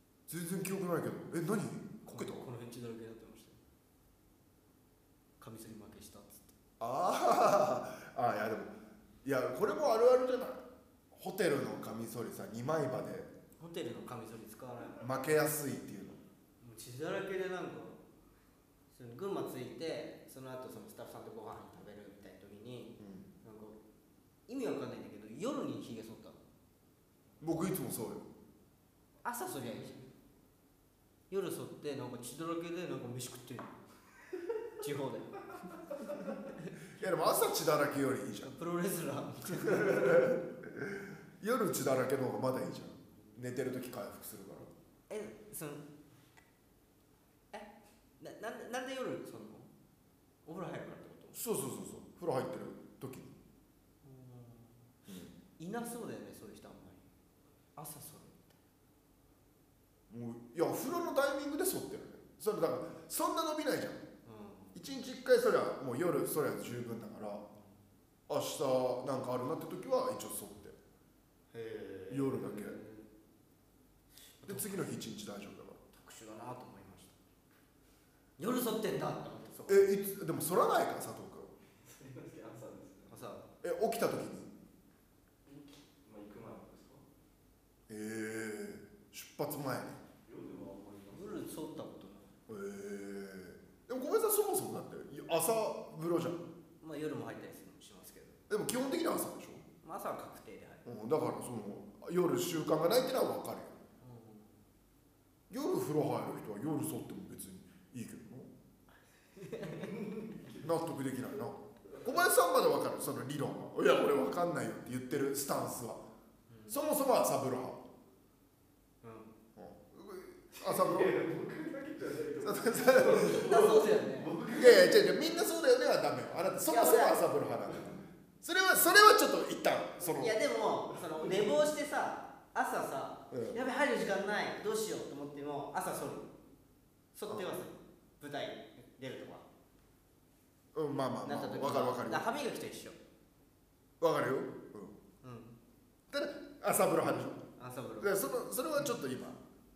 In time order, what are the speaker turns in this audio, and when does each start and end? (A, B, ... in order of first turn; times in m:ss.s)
0:00.3-0:02.5 A
0:02.1-0:03.6 B
0:05.4-0:06.5 B
0:06.8-0:08.7 A
0:09.2-0:13.3 A
0:13.6-0:15.1 B
0:15.0-0:16.2 A
0:16.6-0:18.0 B
0:18.9-0:23.8 B
0:23.0-0:23.3 A
0:24.5-0:26.4 B
0:27.4-0:28.2 A
0:29.2-0:30.0 B
0:31.3-0:33.8 B
0:34.8-0:35.4 B
0:36.3-0:36.7 B
0:37.0-0:38.5 A
0:38.4-0:40.3 B
0:39.6-0:44.7 A
0:45.1-0:45.8 B
0:47.5-0:49.7 B
0:50.4-0:51.4 B
0:51.3-0:53.3 A
0:54.0-0:54.9 B
0:55.1-0:55.3 A
0:55.6-0:57.0 B
0:57.8-0:58.6 B
1:00.1-1:04.0 A
1:04.2-1:04.8 B
1:04.7-1:07.4 A
1:08.3-1:10.8 A
1:11.5-1:13.0 B
1:12.1-1:12.8 A
1:14.3-1:15.0 B
1:14.4-1:15.8 A
1:15.9-1:17.2 B
1:18.4-1:19.9 B
1:19.7-1:21.5 A
1:21.7-1:23.2 C
1:23.1-1:23.5 B
1:23.6-1:24.5 A
1:25.4-1:27.0 C
1:27.9-1:30.0 A
1:30.2-1:31.5 C
1:31.1-1:32.3 B
1:32.5-1:36.4 A
1:36.8-1:38.4 B
1:38.5-1:39.6 A
1:39.8-1:40.8 B
1:40.8-1:43.8 A
1:44.0-1:44.5 B
1:45.5-1:48.5 A
1:49.3-1:49.9 B
1:49.6-1:50.7 C
1:50.6-1:56.0 A
1:56.5-1:56.8 B
1:56.7-1:57.8 A
1:59.0-1:59.3 B
1:59.6-2:01.1 A
2:00.6-2:05.0 C
2:02.4-2:03.4 A
2:03.2-2:04.3 B
2:04.5-2:10.4 A
2:06.7-2:07.2 B
2:07.7-2:08.0 C
2:10.0-2:16.3 B
2:11.2-2:11.4 C
2:13.3-2:13.6 A
2:17.1-2:19.4 B
2:20.7-2:22.2 A
2:21.2-2:23.0 B
2:24.0-2:24.9 A
2:25.2-2:25.5 B
2:26.1-2:27.4 A
2:27.6-2:28.1 B
2:28.0-2:29.4 A